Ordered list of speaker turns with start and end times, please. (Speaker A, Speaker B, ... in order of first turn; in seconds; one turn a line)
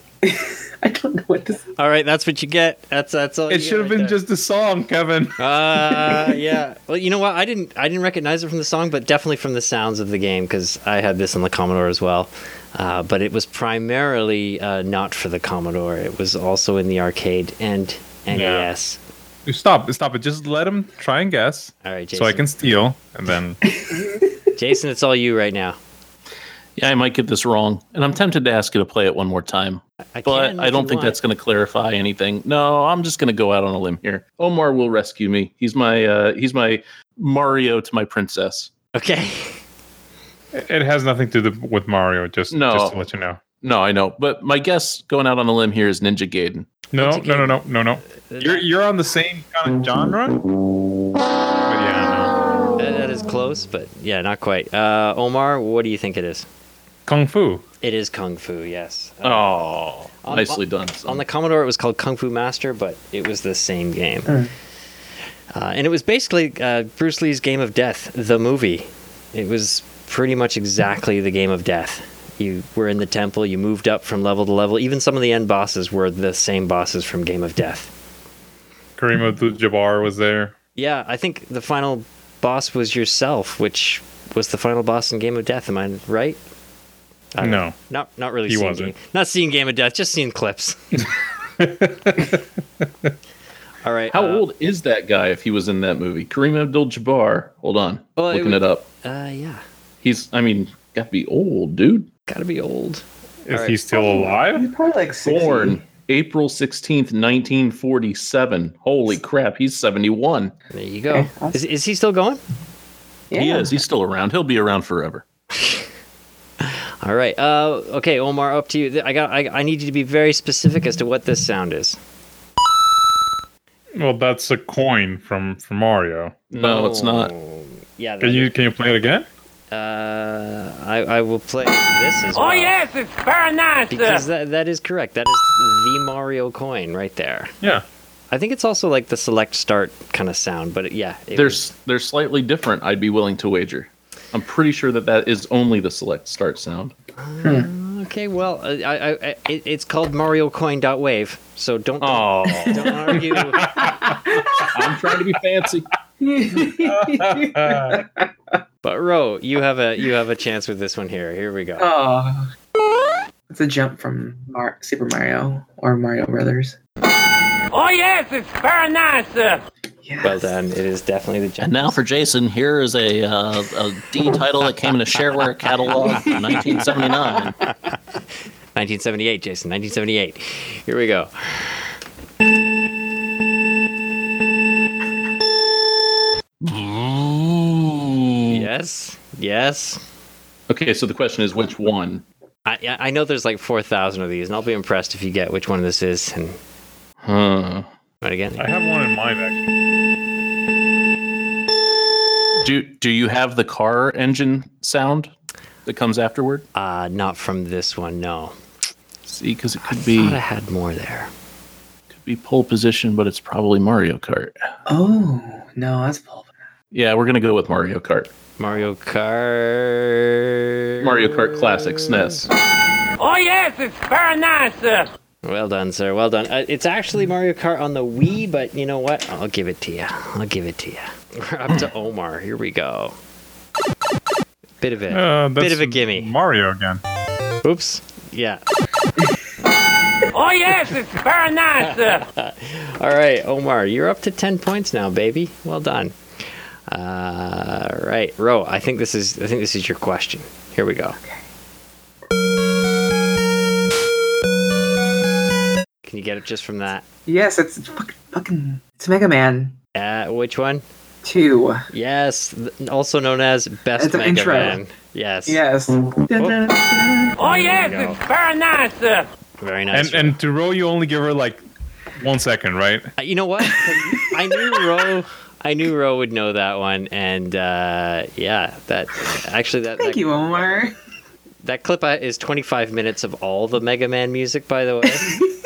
Speaker A: 0.2-1.7
Speaker B: 1.8-4.2
Speaker C: 3.5-5.4
Speaker B: 5.4-19.0
Speaker A: 6.1-6.3
Speaker C: 18.3-18.7
Speaker C: 19.5-23.6
Speaker B: 21.8-22.5
Speaker A: 23.8-24.2
Speaker B: 24.6-25.8
Speaker D: 26.8-38.7
Speaker B: 30.1-31.2
Speaker B: 38.9-39.6
Speaker C: 40.5-43.4
Speaker D: 42.5-43.0
Speaker D: 43.6-46.7
Speaker C: 46.9-50.4
Speaker B: 47.0-47.7
Speaker B: 48.2-48.7
Speaker C: 51.6-52.4
Speaker B: 52.8-56.5
Speaker C: 57.1-57.6
Speaker B: 57.8-59.6
Speaker D: 59.2-61.2
Speaker B: 60.2-64.4
Speaker B: 65.5-77.9
Speaker C: 79.0-80.5
Speaker B: 80.8-86.4
Speaker B: 87.3-91.0
Speaker C: 87.4-87.8
Speaker C: 88.5-88.9
Speaker C: 91.6-92.4
Speaker B: 93.8-94.4
Speaker D: 94.1-98.9
Speaker B: 98.2-99.6
Speaker D: 100.0-102.1
Speaker B: 102.3-104.0
Speaker C: 103.5-104.7
Speaker A: 103.9-105.8
Speaker D: 105.2-110.5
Speaker B: 110.7-112.4
Speaker A: 111.1-111.6
Speaker A: 113.3-113.8
Speaker D: 113.3-115.2
Speaker B: 115.6-115.8
Speaker B: 116.6-122.0
Speaker C: 124.0-126.3
Speaker D: 126.5-127.3
Speaker B: 126.6-128.5
Speaker C: 128.2-129.3
Speaker B: 129.7-132.7
Speaker E: 132.3-134.2
Speaker B: 133.9-137.5
Speaker B: 138.3-141.7
Speaker D: 141.3-146.9
Speaker B: 147.2-153.9
Speaker A: 147.4-147.7
Speaker D: 152.0-153.1
Speaker A: 152.7-154.9
Speaker C: 153.7-154.0
Speaker D: 154.5-155.9
Speaker A: 156.2-158.3
Speaker C: 156.7-158.0
Speaker B: 158.8-161.9
Speaker A: 161.8-162.5
Speaker A: 163.5-166.8
Speaker E: 167.7-169.6
Speaker A: 170.0-170.5
Speaker B: 170.2-172.0
Speaker D: 171.6-177.6
Speaker A: 176.1-177.4
Speaker B: 178.8-181.9
Speaker D: 186.6-188.6
Speaker B: 188.5-190.0
Speaker D: 190.7-192.2
Speaker B: 192.7-196.6
Speaker D: 197.2-197.9
Speaker B: 198.2-198.7
Speaker C: 198.6-199.7
Speaker D: 202.6-205.3
Speaker D: 205.9-206.7
Speaker B: 206.8-208.6
Speaker D: 209.3-210.4
Speaker B: 209.9-211.3
Speaker D: 212.1-214.5
Speaker A: 214.9-216.5
Speaker D: 216.9-218.3
Speaker B: 218.6-222.4
Speaker D: 221.0-222.5
Speaker E: 223.2-225.1
Speaker B: 225.4-233.2
Speaker B: 234.8-236.3
Speaker C: 235.1-237.0
Speaker B: 237.6-238.6
Speaker E: 240.3-242.2
Speaker B: 241.8-246.2
Speaker B: 246.9-251.2
Speaker B: 256.0-257.0
Speaker A: 257.3-259.8
Speaker B: 259.9-260.8
Speaker A: 261.2-261.9
Speaker B: 261.9-265.6
Speaker A: 264.0-264.8
Speaker A: 265.5-267.5
Speaker E: 267.4-269.3
Speaker B: 267.4-268.2
Speaker B: 269.6-270.4
Speaker C: 269.9-271.6
Speaker C: 272.2-273.1
Speaker B: 273.2-280.2
Speaker A: 273.8-274.9
Speaker A: 280.0-280.9
Speaker B: 281.6-285.4
Speaker A: 285.1-285.5